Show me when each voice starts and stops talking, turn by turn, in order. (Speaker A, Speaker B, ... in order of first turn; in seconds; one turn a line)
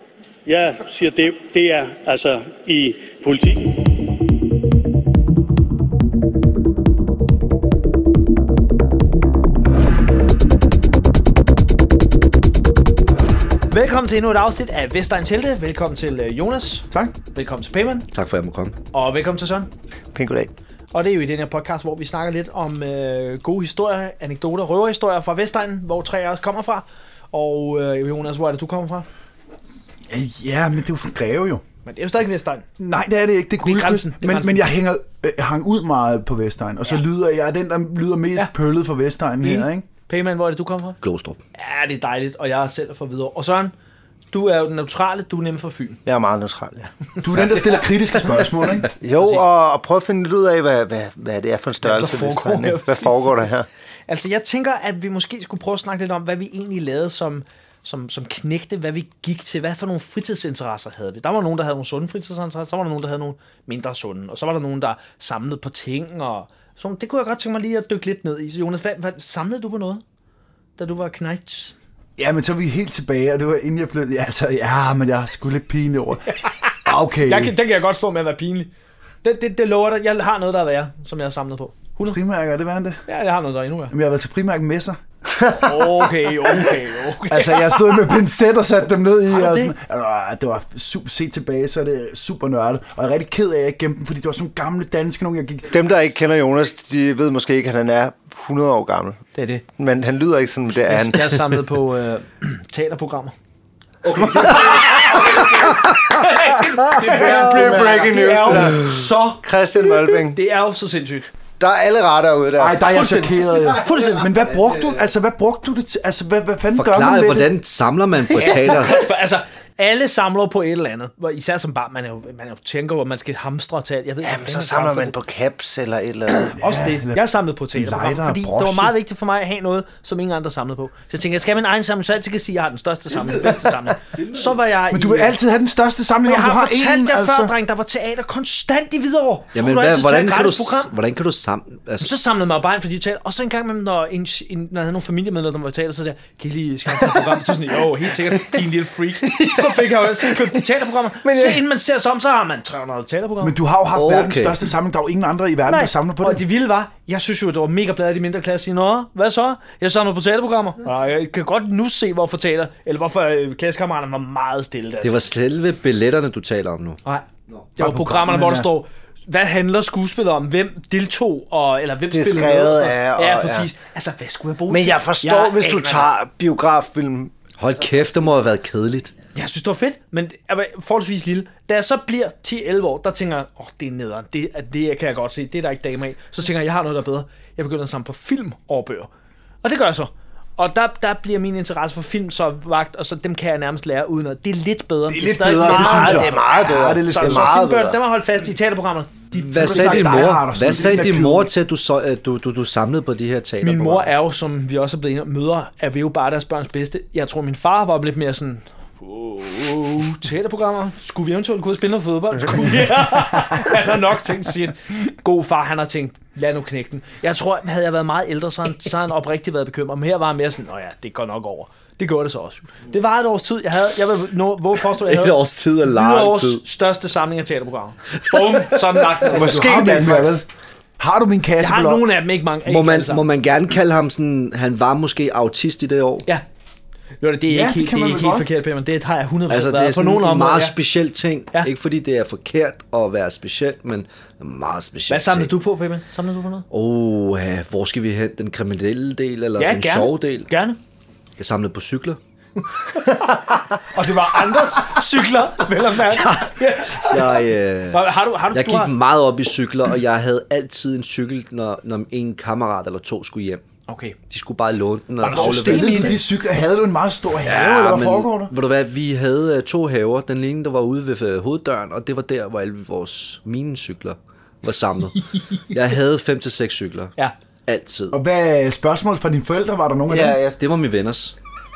Speaker A: 0.5-3.9
Speaker B: 13.7-18.1
Speaker C: 18.1-18.8
Speaker B: 18.9-19.7
Speaker D: 20.1-20.5
Speaker B: 20.9-29.1
Speaker E: 30.1-31.6
Speaker B: 31.9-32.6
Speaker E: 32.8-39.9
Speaker B: 33.6-34.7
Speaker B: 39.4-41.0
Speaker C: 41.0-41.4
Speaker B: 41.6-43.7
Speaker B: 44.3-46.0
Speaker D: 46.0-46.9
Speaker E: 47.2-48.9
Speaker D: 49.0-53.7
Speaker B: 49.1-49.5
Speaker B: 51.8-53.5
Speaker B: 54.1-70.0
Speaker B: 70.8-71.7
Speaker E: 72.2-76.3
Speaker B: 76.3-78.7
Speaker E: 76.8-77.5
Speaker B: 79.2-82.2
Speaker E: 82.0-83.0
Speaker B: 83.1-84.0
Speaker E: 83.9-85.0
Speaker D: 85.4-86.1
Speaker B: 85.6-88.1
Speaker E: 87.3-95.8
Speaker B: 89.3-89.8
Speaker D: 95.7-99.2
Speaker B: 99.3-99.6
Speaker D: 99.8-101.6
Speaker B: 100.9-103.3
Speaker D: 104.0-105.7
Speaker B: 104.2-111.3
Speaker D: 106.9-110.4
Speaker E: 107.7-107.9
Speaker D: 111.6-112.9
Speaker E: 112.6-117.5
Speaker B: 112.9-114.5
Speaker C: 116.8-119.0
Speaker B: 118.3-125.2
Speaker D: 124.2-126.5
Speaker B: 126.5-135.3
Speaker E: 126.5-128.9
Speaker E: 134.9-137.5
Speaker B: 136.2-140.9
Speaker C: 139.6-142.1
Speaker B: 142.0-153.6
Speaker D: 149.3-149.8
Speaker D: 151.2-151.6
Speaker E: 153.4-156.4
Speaker C: 153.9-154.6
Speaker B: 155.7-165.3
Speaker C: 165.0-167.0
Speaker B: 167.1-176.1
Speaker E: 167.8-168.7
Speaker D: 172.1-173.7
Speaker D: 174.7-177.3
Speaker C: 177.6-179.1
Speaker B: 179.3-189.1
Speaker B: 189.6-200.2
Speaker E: 195.1-197.7
Speaker D: 195.6-198.0
Speaker C: 199.5-204.1
Speaker E: 199.5-201.5
Speaker B: 203.6-229.7
Speaker C: 224.9-226.6
Speaker C: 228.3-228.8
Speaker D: 229.3-230.4
Speaker E: 229.3-230.5
Speaker E: 231.0-232.1
Speaker B: 231.6-233.2
Speaker C: 232.7-236.3
Speaker B: 237.2-240.8
Speaker E: 237.5-238.5
Speaker C: 239.5-245.5
Speaker B: 245.1-246.7
Speaker C: 246.7-250.5
Speaker B: 249.6-250.8
Speaker C: 251.4-252.2
Speaker B: 252.9-258.9
Speaker C: 256.1-263.6
Speaker B: 263.9-264.2
Speaker C: 264.3-266.2
Speaker B: 265.2-266.2
Speaker E: 265.3-268.5
Speaker C: 267.4-277.1
Speaker C: 277.7-278.2
Speaker E: 278.1-280.4
Speaker D: 280.1-280.6
Speaker C: 280.5-281.3